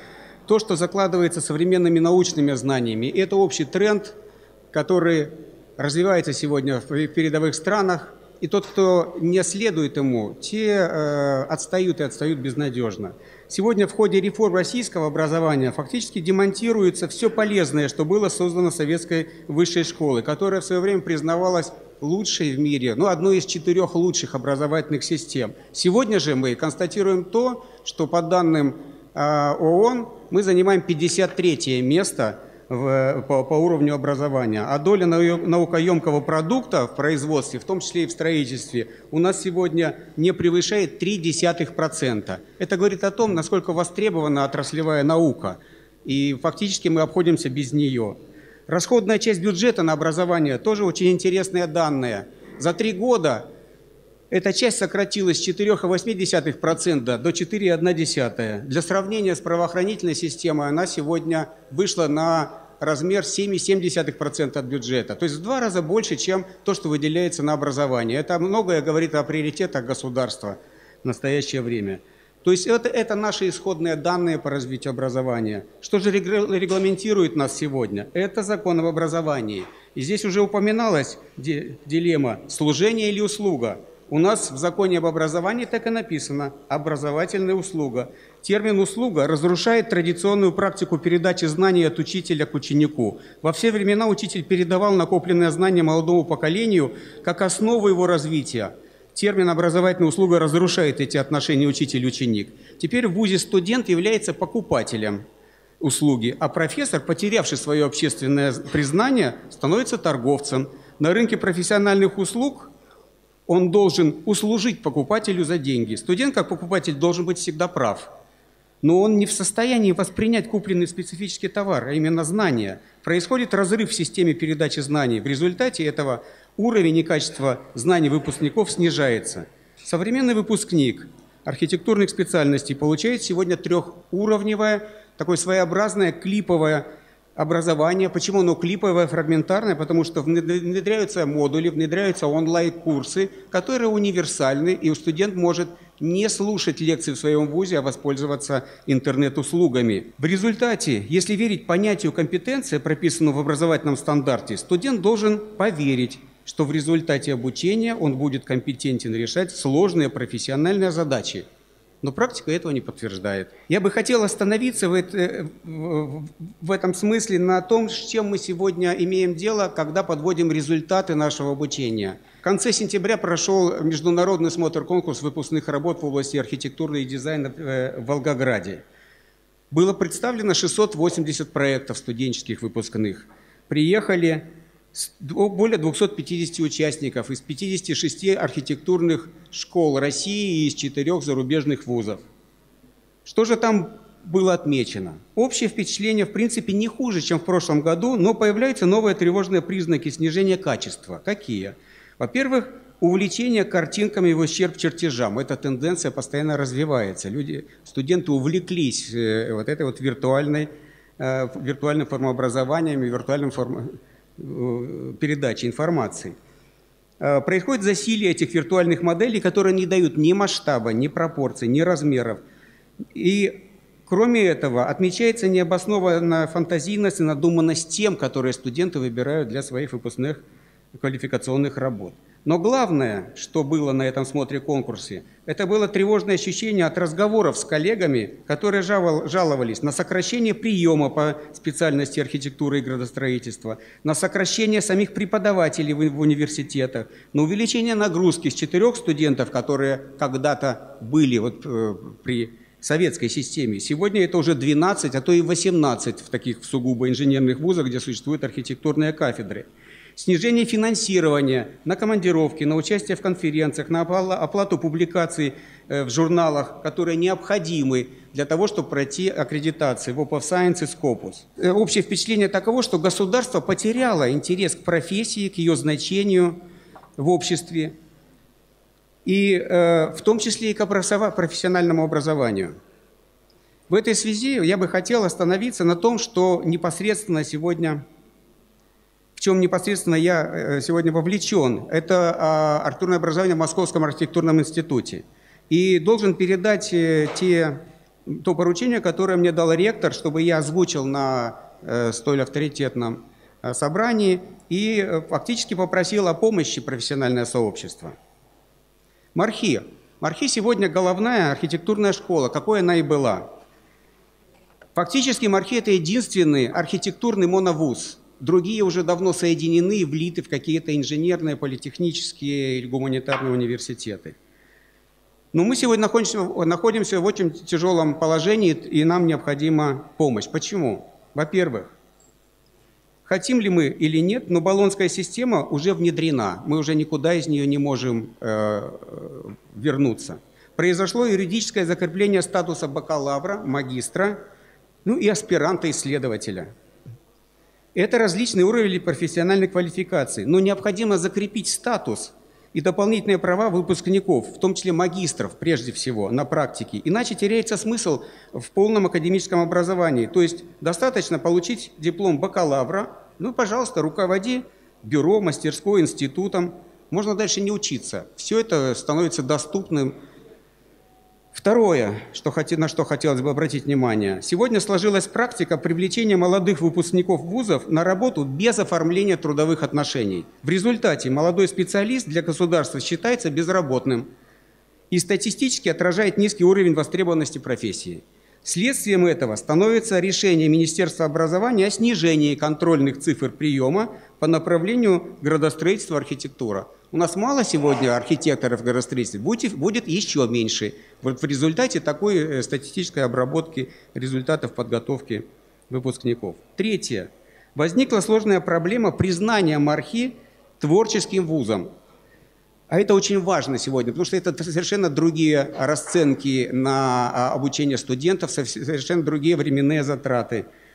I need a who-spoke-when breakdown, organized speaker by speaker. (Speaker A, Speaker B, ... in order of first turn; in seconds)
Speaker A: 0.5-4.2, 4.7-53.5, 54.3-105.2, 105.8-112.7, 113.5-118.1, 118.8-136.8, 137.3-161.4, 162.0-178.8, 179.7-192.2, 193.2-216.3, 217.2-222.4, 223.1-230.4, 230.9-276.6, 277.2-277.9, 279.2-282.7, 283.9-288.0, 289.4-308.1, 309.3-313.5, 314.9-324.4, 325.5-331.9, 333.2-344.4, 345.0-346.7, 347.9-370.1, 371.5-384.3, 385.1-411.9, 412.9-420.6